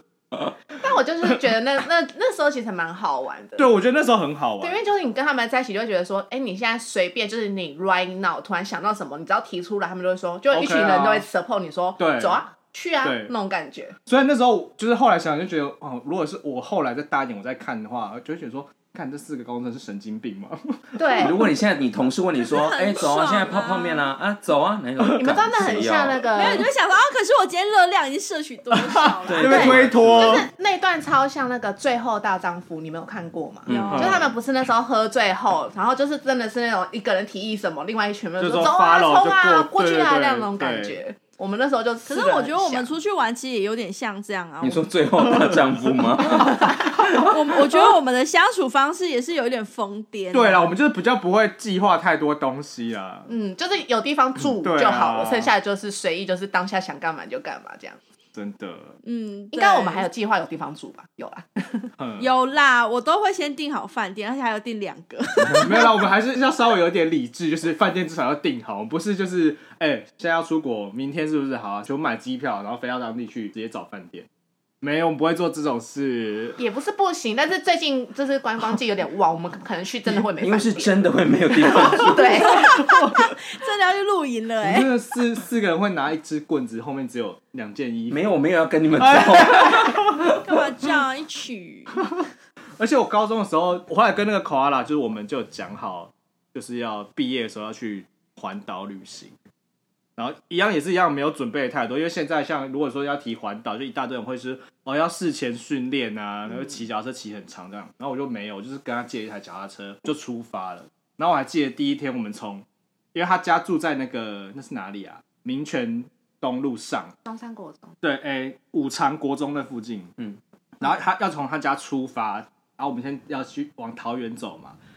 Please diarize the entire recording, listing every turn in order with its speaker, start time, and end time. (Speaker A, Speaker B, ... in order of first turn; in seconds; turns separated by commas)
Speaker A: 0.7-3.7, Speaker B: 3.6-4.8, Speaker A: 4.6-13.9, Speaker B: 10.5-11.2, Speaker B: 12.0-12.4, Speaker B: 13.0-13.3, Speaker B: 14.1-20.8, Speaker A: 20.9-21.4, Speaker C: 21.2-26.2, Speaker D: 22.5-24.1, Speaker B: 25.0-25.4, Speaker A: 25.1-26.7, Speaker D: 26.3-29.7, Speaker B: 28.7-30.5, Speaker C: 29.3-30.4, Speaker A: 29.4-42.9, Speaker C: 33.6-34.3, Speaker D: 33.7-34.1, Speaker B: 33.9-34.3, Speaker B: 38.4-41.0, Speaker D: 42.0-44.9, Speaker C: 44.6-47.4, Speaker B: 45.2-46.0, Speaker D: 47.1-50.7, Speaker B: 50.3-53.3, Speaker A: 53.3-58.0, Speaker B: 54.6-55.5, Speaker B: 58.3-58.9, Speaker D: 59.0-60.1, Speaker A: 59.5-61.9, Speaker B: 62.0-62.3, Speaker D: 62.2-65.9, Speaker B: 65.5-74.2, Speaker B: 74.8-76.6, Speaker A: 76.6-82.8, Speaker C: 80.1-82.7, Speaker D: 82.4-84.9, Speaker B: 84.6-88.2, Speaker C: 88.1-90.4, Speaker B: 89.0-90.3, Speaker D: 90.3-92.0, Speaker B: 92.8-99.3, Speaker B: 100.2-117.1, Speaker A: 117.2-118.0, Speaker B: 118.0-120.1, Speaker B: 120.8-124.8